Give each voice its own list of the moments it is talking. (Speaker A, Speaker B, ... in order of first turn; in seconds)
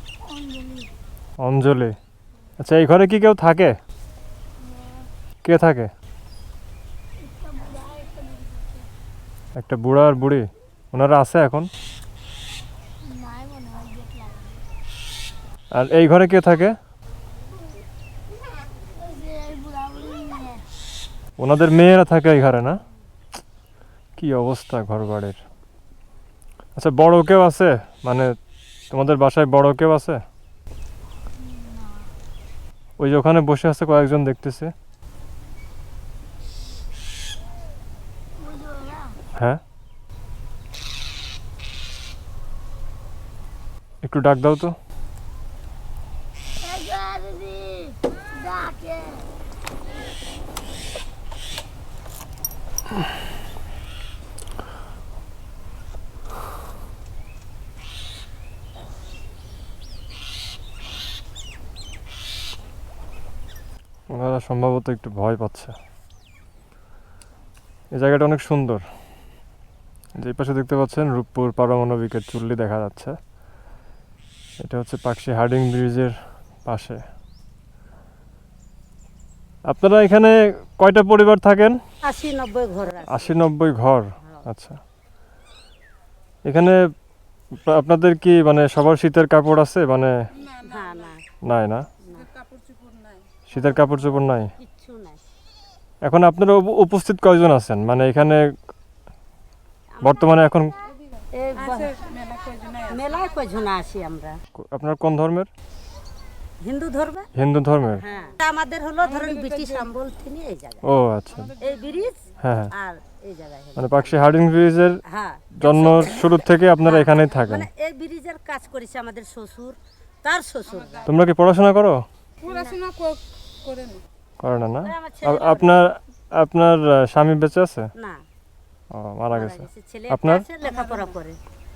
Speaker A: 0.3-0.9, 7.4-8.6, 13.0-14.6, 19.0-20.6, 31.6-31.9, 38.4-39.1, 46.6-49.3
Speaker B: 1.4-2.0, 2.6-3.8, 5.4-5.9, 9.6-11.7, 15.7-16.8, 21.4-22.8, 24.2-25.4, 26.8-28.4, 28.9-30.2, 33.0-34.7, 39.3-39.6, 44.0-44.8, 64.1-65.8, 67.9-68.8, 70.2-73.2, 74.6-77.0, 79.7-81.8, 83.1-84.8, 86.4-86.9, 87.6-90.2, 91.4-91.9, 93.5-94.5, 96.0-98.5, 100.0-100.8, 104.5-105.5, 107.3-108.0, 110.8-111.5, 112.4-112.7, 113.8-115.0, 115.5-117.7, 121.0-122.0, 124.4-127.9, 128.9-130.4
Speaker C: 82.0-83.4, 90.6-91.2, 93.5-93.8, 94.6-95.2, 100.0-100.3, 101.3-102.0, 102.9-104.3, 106.6-107.3, 108.0-110.9, 111.6-114.3, 115.1-121.1, 124.8-125.8, 128.0-128.2, 129.3-131.4
Speaker D: 90.4-91.1, 92.2-93.2, 101.6-103.0, 109.0-109.9, 111.3-112.0, 120.7-121.0, 122.4-124.0, 130.6-131.2